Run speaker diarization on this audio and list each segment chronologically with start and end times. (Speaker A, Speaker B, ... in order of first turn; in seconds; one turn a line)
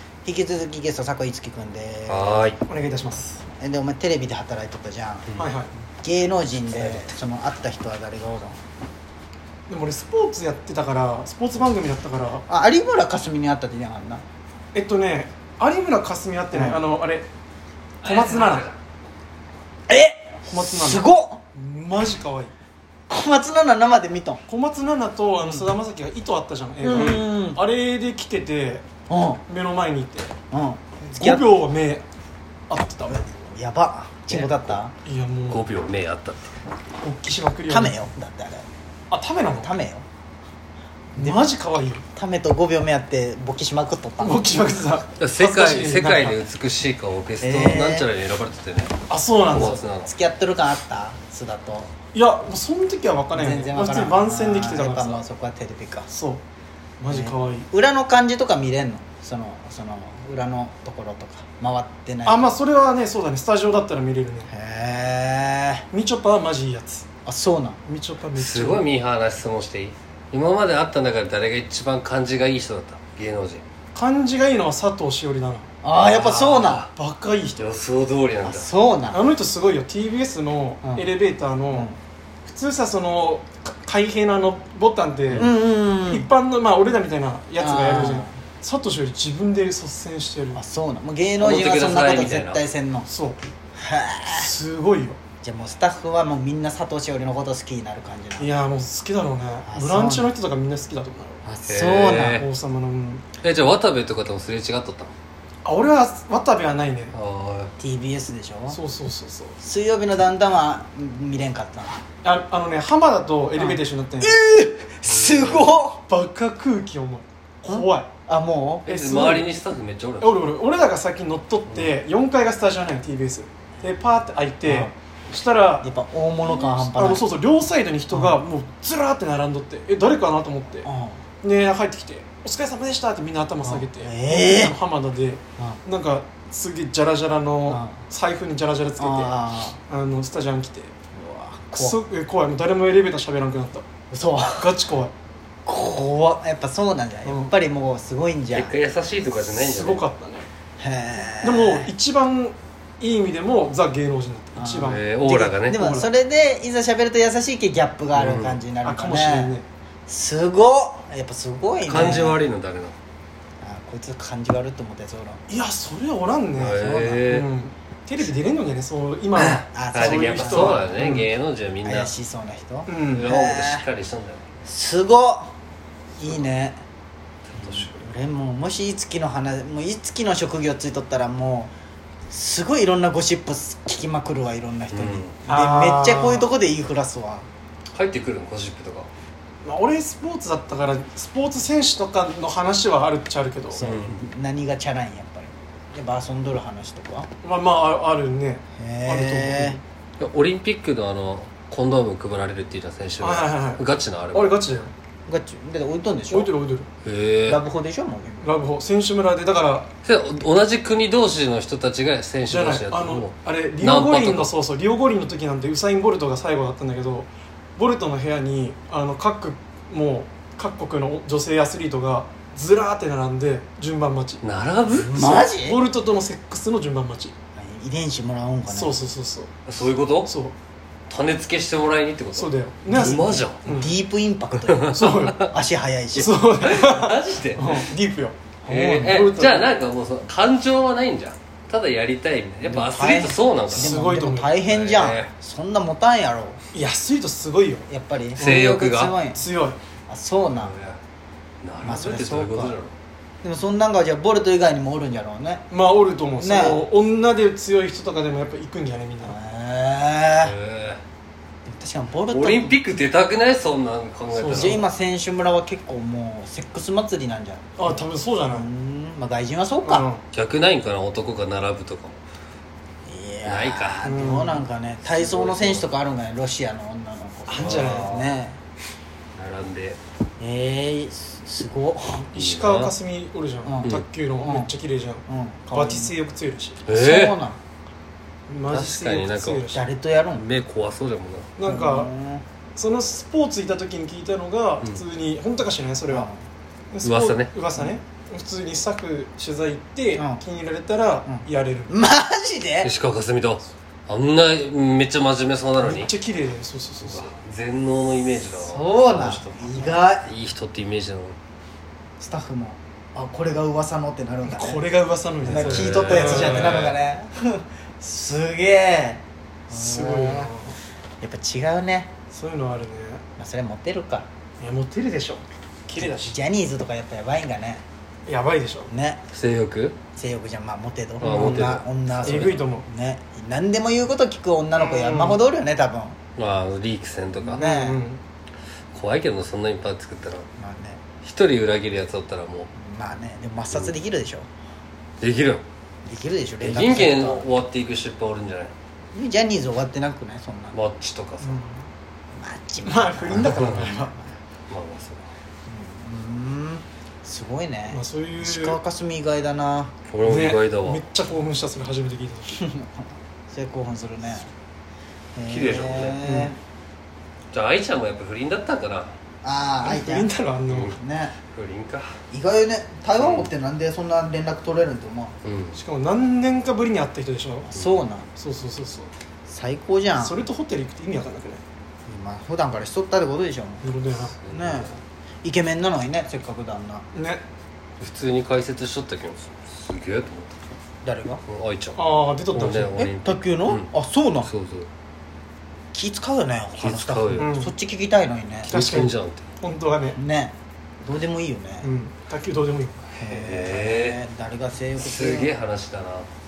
Speaker A: 0.2-2.5
Speaker B: 2.1-2.6
Speaker C: 2.6-3.4
Speaker A: 3.6-5.3
Speaker C: 5.4-5.7
Speaker A: 6.0-8.6
Speaker B: 6.8-7.1
Speaker C: 9.7-12.4
Speaker A: 12.5-14.2
Speaker C: 14.7-17.3
Speaker A: 16.5-16.8
Speaker C: 18.0-18.7
Speaker B: 18.0-18.8
Speaker A: 19.9-21.4
Speaker C: 20.5-22.5
Speaker A: 23.1-24.4
Speaker C: 24.5-28.9
Speaker A: 25.4-25.7
Speaker A: 26.8-27.6
Speaker A: 29.1-29.4
Speaker C: 29.5-30.3
Speaker A: 30.5-31.5
Speaker C: 31.1-32.0
Speaker C: 32.7-33.4
Speaker A: 33.1-34.9
Speaker B: 34.3-34.8
Speaker C: 35.0-35.6
Speaker B: 35.5-36.6
Speaker C: 37.0-38.0
Speaker A: 37.7-38.7
Speaker C: 39.1-39.7
Speaker A: 39.5-40.0
Speaker C: 41.1-42.0
Speaker A: 41.2-41.4
Speaker A: 42.1-44.5
Speaker C: 44.2-46.5
Speaker B: 45.2-49.0
Speaker A: 47.4-48.1
Speaker C: 49.1-49.8
Speaker B: 49.5-50.1
Speaker A: 49.5-51.9
Speaker C: 52.1-55.2
Speaker A: 53.4-56.1
Speaker C: 56.1-56.4
Speaker C: 57.0-57.7
Speaker A: 57.1-62.5
Speaker C: 62.3-64.5
Speaker A: 64.5-65.8
Speaker C: 65.9-67.0
Speaker A: 67.3-67.8
Speaker C: 67.9-68.9
Speaker B: 68.3-73.7
Speaker C: 73.9-75.7
Speaker A: 75.8-76.9
Speaker B: 76.0-76.9
Speaker C: 76.9-77.7
Speaker B: 77.6-78.7
Speaker A: 78.5-79.3
Speaker C: 79.1-81.9
Speaker A: 80.8-81.1
Speaker C: 82.5-85.5
Speaker A: 85.4-86.3
Speaker C: 86.1-90.6
Speaker A: 87.6-88.3
Speaker A: 90.5-93.1
Speaker B: 91.4-92.6
Speaker C: 93.1-93.4
Speaker A: 93.8-94.5
Speaker C: 94.3-95.2
Speaker A: 95.4-98.5
Speaker C: 98.4-101.4
Speaker A: 99.7-100.4
Speaker A: 101.5-102.4
Speaker B: 101.7-102.5
Speaker C: 102.4-103.2
Speaker B: 103.4-105.1
Speaker C: 105.6-107.2
Speaker B: 107.1-107.7
Speaker A: 107.8-108.8
Speaker C: 108.7-109.6
Speaker A: 109.6-112.0
Speaker C: 112.2-114.4
Speaker A: 113.6-116.0
Speaker B: 115.0-115.7
Speaker C: 116.1-118.1
Speaker A: 117.7-118.9
Speaker C: 118.9-119.5
Speaker B: 118.9-120.4
Speaker C: 120.2-125.9
Speaker A: 124.6-124.9
Speaker A: 125.8-127.3
Speaker C: 126.4-130.9
Speaker A: 128.1-128.4
Speaker A: 130.8-131.2
Speaker C: 131.4-140.9
Speaker A: 133.6-134.8
Speaker A: 137.7-138.0
Speaker A: 139.0-139.8
Speaker A: 141.1-142.0
Speaker C: 141.7-143.8
Speaker A: 144.1-144.8
Speaker C: 144.5-145.1
Speaker A: 145.7-148.7
Speaker C: 147.2-147.5
Speaker B: 148.5-150.0
Speaker C: 149.3-150.5
Speaker A: 150.8-151.9
Speaker C: 151.4-156.1
Speaker A: 154.6-159.6
Speaker B: 154.8-155.8
Speaker B: 158.2-158.6
Speaker C: 158.8-159.7
Speaker A: 160.1-162.5
Speaker B: 161.9-163.0
Speaker A: 163.6-165.4
Speaker C: 165.5-171.3
Speaker B: 166.6-167.5
Speaker A: 166.6-167.3
Speaker A: 169.3-171.2
Speaker B: 169.9-172.1
Speaker A: 171.8-173.9
Speaker C: 172.9-173.3
Speaker B: 173.1-174.4
Speaker A: 174.6-175.5
Speaker A: 176.2-176.8
Speaker B: 177.5-178.1
Speaker A: 177.6-181.7
Speaker A: 182.3-187.5
Speaker B: 184.9-185.4
Speaker C: 185.5-186.5
Speaker B: 187.9-189.1
Speaker C: 189.6-193.8
Speaker A: 193.7-197.3
Speaker B: 193.8-194.2
Speaker C: 197.4-199.8
Speaker A: 198.8-199.8
Speaker B: 200.2-204.6
Speaker C: 203.2-204.9
Speaker A: 205.3-206.6
Speaker C: 206.3-206.9
Speaker B: 207.0-207.6
Speaker A: 207.5-208.5
Speaker C: 208.4-209.9
Speaker B: 210.0-214.5
Speaker C: 212.5-224.4
Speaker B: 224.4-225.2
Speaker A: 224.9-225.8
Speaker C: 225.1-227.3
Speaker A: 227.6-229.0
Speaker C: 228.7-229.5
Speaker B: 229.7-230.3
Speaker C: 230.2-230.6
Speaker B: 231.1-233.7
Speaker C: 232.3-234.0
Speaker A: 232.9-236.5
Speaker B: 234.8-235.5
Speaker C: 234.8-235.5
Speaker C: 236.2-239.7
Speaker B: 236.6-237.8
Speaker B: 238.7-244.0
Speaker A: 242.6-246.6
Speaker C: 243.7-244.6
Speaker B: 244.6-245.3
Speaker C: 246.7-249.8
Speaker A: 247.9-249.4
Speaker B: 248.4-249.2
Speaker A: 250.1-250.8
Speaker B: 250.5-251.0
Speaker B: 251.6-252.9
Speaker A: 251.8-252.8
Speaker A: 253.4-255.7
Speaker C: 255.7-259.4
Speaker A: 256.4-256.9
Speaker A: 259.2-260.6
Speaker B: 260.4-261.0
Speaker A: 261.7-262.8
Speaker B: 262.3-264.9
Speaker C: 264.4-264.8
Speaker A: 264.5-270.1
Speaker C: 267.8-268.7
Speaker C: 269.8-270.2
Speaker B: 270.3-272.2
Speaker A: 273.1-278.6
Speaker B: 273.4-274.1
Speaker C: 274.0-274.6
Speaker B: 275.0-275.9
Speaker C: 277.5-278.1
Speaker B: 277.6-278.3
Speaker B: 279.3-280.0
Speaker A: 280.4-282.2
Speaker C: 282.1-286.9
Speaker B: 282.4-282.9
Speaker A: 283.6-284.7
Speaker A: 285.3-286.2
Speaker B: 286.9-287.4
Speaker A: 286.9-287.6
Speaker C: 288.5-289.9
Speaker B: 288.7-289.7
Speaker A: 289.7-290.5
Speaker B: 290.3-291.5
Speaker C: 291.6-292.1
Speaker A: 291.7-292.4
Speaker C: 292.8-296.3
Speaker A: 296.1-296.4
Speaker C: 296.9-302.0
Speaker B: 297.0-297.5
Speaker A: 300.2-300.4
Speaker A: 301.2-302.9
Speaker B: 302.8-306.1
Speaker C: 305.8-307.3
Speaker B: 307.0-311.4
Speaker A: 308.6-310.3
Speaker A: 312.2-314.8
Speaker C: 314.5-316.9
Speaker B: 315.4-317.0
Speaker A: 315.5-320.5
Speaker C: 319.7-320.8
Speaker A: 321.2-322.1
Speaker C: 322.3-323.2
Speaker A: 323.4-324.3
Speaker C: 324.6-326.4
Speaker A: 326.0-327.8
Speaker C: 328.3-328.9
Speaker A: 328.9-329.2
Speaker B: 329.3-330.0
Speaker A: 330.2-336.2
Speaker C: 331.2-332.9
Speaker B: 331.2-332.6
Speaker C: 334.8-335.4
Speaker B: 336.4-337.6
Speaker C: 337.5-338.2
Speaker A: 337.5-338.0
Speaker B: 338.9-340.4
Speaker A: 340.6-341.0
Speaker B: 341.2-342.7
Speaker A: 342.8-344.5
Speaker B: 345.2-345.6
Speaker A: 346.1-347.5
Speaker B: 346.6-348.7
Speaker A: 349.1-350.8
Speaker B: 350.7-351.6
Speaker C: 351.4-351.7
Speaker A: 352.4-354.4
Speaker C: 352.8-354.1
Speaker B: 353.4-353.7
Speaker B: 354.7-355.2
Speaker A: 355.7-359.9
Speaker C: 357.9-358.8
Speaker B: 360.1-361.0
Speaker C: 360.2-362.6
Speaker A: 362.5-364.5
Speaker A: 365.4-366.6
Speaker B: 365.5-366.2
Speaker C: 366.2-366.6
Speaker B: 367.5-369.1
Speaker A: 369.4-370.3
Speaker C: 369.8-370.9
Speaker B: 370.7-372.1
Speaker A: 370.9-371.4
Speaker A: 372.3-375.4
Speaker B: 373.2-373.5
Speaker B: 375.4-375.8
Speaker C: 375.7-377.7
Speaker A: 377.7-378.3
Speaker C: 378.4-379.1
Speaker A: 379.5-380.4
Speaker C: 380.1-381.6
Speaker A: 382.1-383.8
Speaker C: 383.8-384.4
Speaker B: 384.2-384.9
Speaker A: 384.5-384.9
Speaker A: 385.4-387.1
Speaker C: 387.1-387.4
Speaker B: 388.0-390.6
Speaker A: 391.0-391.4
Speaker B: 391.5-393.9
Speaker C: 392.0-393.0
Speaker A: 392.9-394.5
Speaker B: 394.4-394.9
Speaker A: 395.9-398.8
Speaker B: 396.8-397.5
Speaker C: 397.4-397.7
Speaker B: 398.7-399.5
Speaker C: 398.7-400.2
Speaker A: 400.1-401.9
Speaker C: 401.8-403.1
Speaker A: 403.2-405.5
Speaker B: 403.2-404.2
Speaker B: 405.0-406.3